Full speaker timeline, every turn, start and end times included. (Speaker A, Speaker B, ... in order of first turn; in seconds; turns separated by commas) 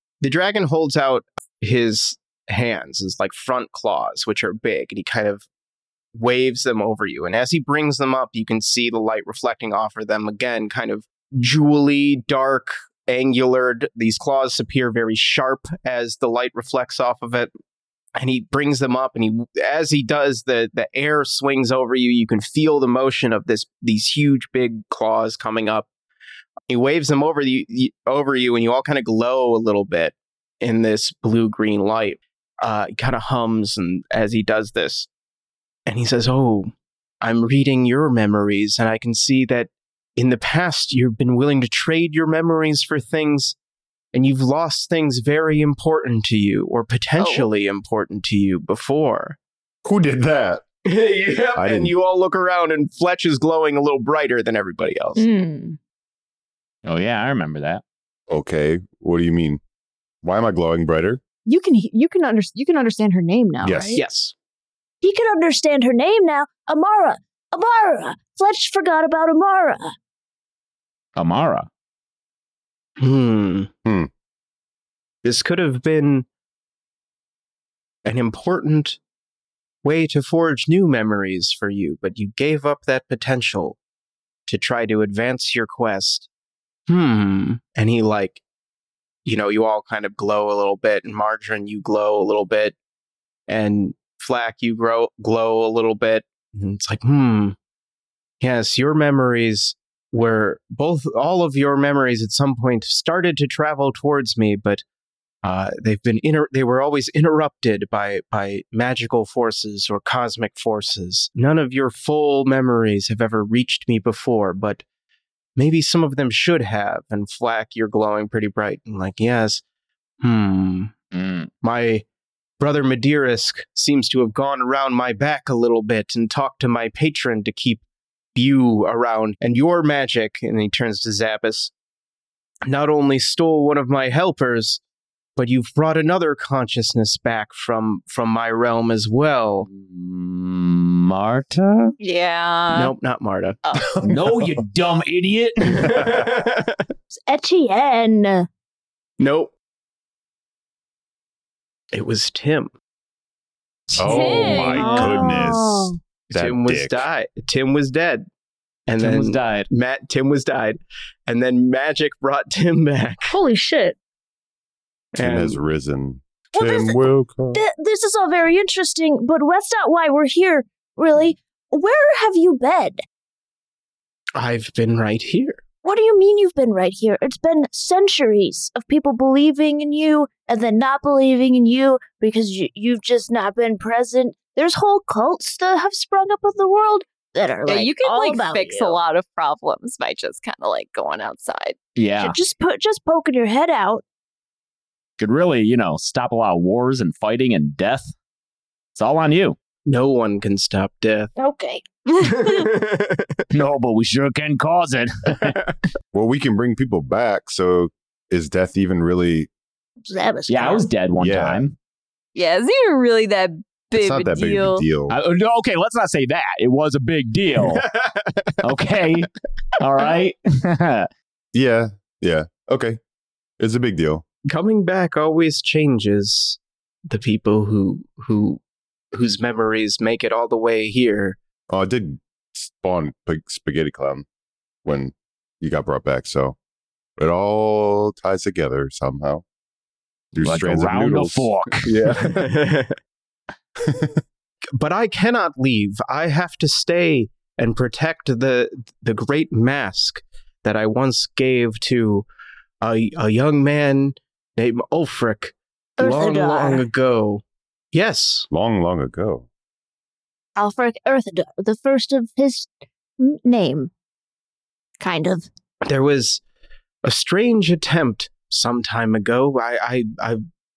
Speaker A: 0.2-5.5, Speaker A: 6.1-17.5, Speaker A: 18.1-25.9, Speaker A: 26.7-35.1, Speaker A: 35.9-43.5, Speaker A: 44.1-49.4, Speaker B: 49.8-50.6, Speaker A: 50.9-55.2, Speaker B: 51.5-51.9, Speaker C: 55.1-55.8, Speaker D: 56.8-57.8, Speaker B: 58.3-59.6, Speaker B: 60.2-61.2, Speaker C: 61.5-64.0, Speaker B: 63.6-64.0, Speaker A: 63.9-64.3, Speaker E: 65.0-69.9, Speaker D: 71.2-71.7, Speaker A: 73.0-73.7, Speaker A: 75.2-76.2, Speaker A: 78.0-79.0, Speaker A: 79.8-83.8, Speaker A: 84.5-86.3, Speaker A: 86.9-88.4, Speaker A: 89.2-92.8, Speaker A: 93.5-97.6, Speaker A: 98.4-104.8, Speaker A: 105.4-114.8, Speaker A: 115.5-119.6, Speaker A: 120.2-120.9, Speaker D: 121.1-121.5, Speaker A: 121.6-122.0, Speaker A: 122.6-127.8, Speaker A: 128.3-131.7, Speaker A: 132.7-134.8, Speaker A: 135.4-139.7, Speaker D: 139.6-141.9, Speaker F: 142.0-142.9, Speaker A: 142.7-143.6, Speaker D: 143.9-146.0, Speaker A: 145.8-146.8, Speaker E: 147.3-148.5, Speaker A: 149.2-149.5, Speaker A: 151.9-152.7, Speaker B: 153.9-157.1, Speaker F: 154.0-155.2, Speaker E: 154.1-155.9, Speaker A: 156.3-158.2, Speaker A: 158.9-163.3, Speaker D: 159.0-159.7, Speaker E: 163.3-163.9, Speaker A: 165.2-165.6, Speaker B: 165.2-167.6, Speaker E: 166.5-173.0, Speaker A: 174.4-175.6, Speaker E: 175.8-189.0, Speaker F: 187.7-191.8, Speaker D: 191.9-192.4, Speaker E: 192.2-194.0, Speaker D: 195.2-198.1, Speaker D: 198.9-199.6, Speaker A: 199.9-201.3, Speaker E: 201.4-202.5, Speaker A: 202.2-203.4, Speaker D: 203.5-205.6, Speaker B: 206.1-209.5, Speaker E: 210.0-210.9, Speaker D: 210.5-211.7, Speaker B: 211.2-211.6, Speaker F: 212.3-214.9, Speaker B: 213.9-215.2, Speaker D: 215.1-217.9, Speaker A: 217.7-218.6, Speaker D: 218.6-221.1, Speaker B: 221.5-223.0, Speaker B: 223.6-224.2, Speaker A: 224.5-228.6, Speaker A: 229.1-231.4, Speaker B: 231.7-234.2, Speaker B: 234.8-236.6, Speaker B: 237.2-239.4, Speaker B: 240.3-242.5, Speaker D: 240.4-242.0, Speaker A: 242.3-242.9, Speaker B: 243.8-244.1, Speaker A: 244.7-252.3, Speaker A: 252.8-257.4, Speaker E: 256.0-256.8, Speaker A: 257.9-258.5, Speaker B: 258.5-259.4, Speaker E: 260.6-263.9, Speaker E: 265.0-265.5, Speaker A: 265.9-266.4, Speaker A: 267.0-270.4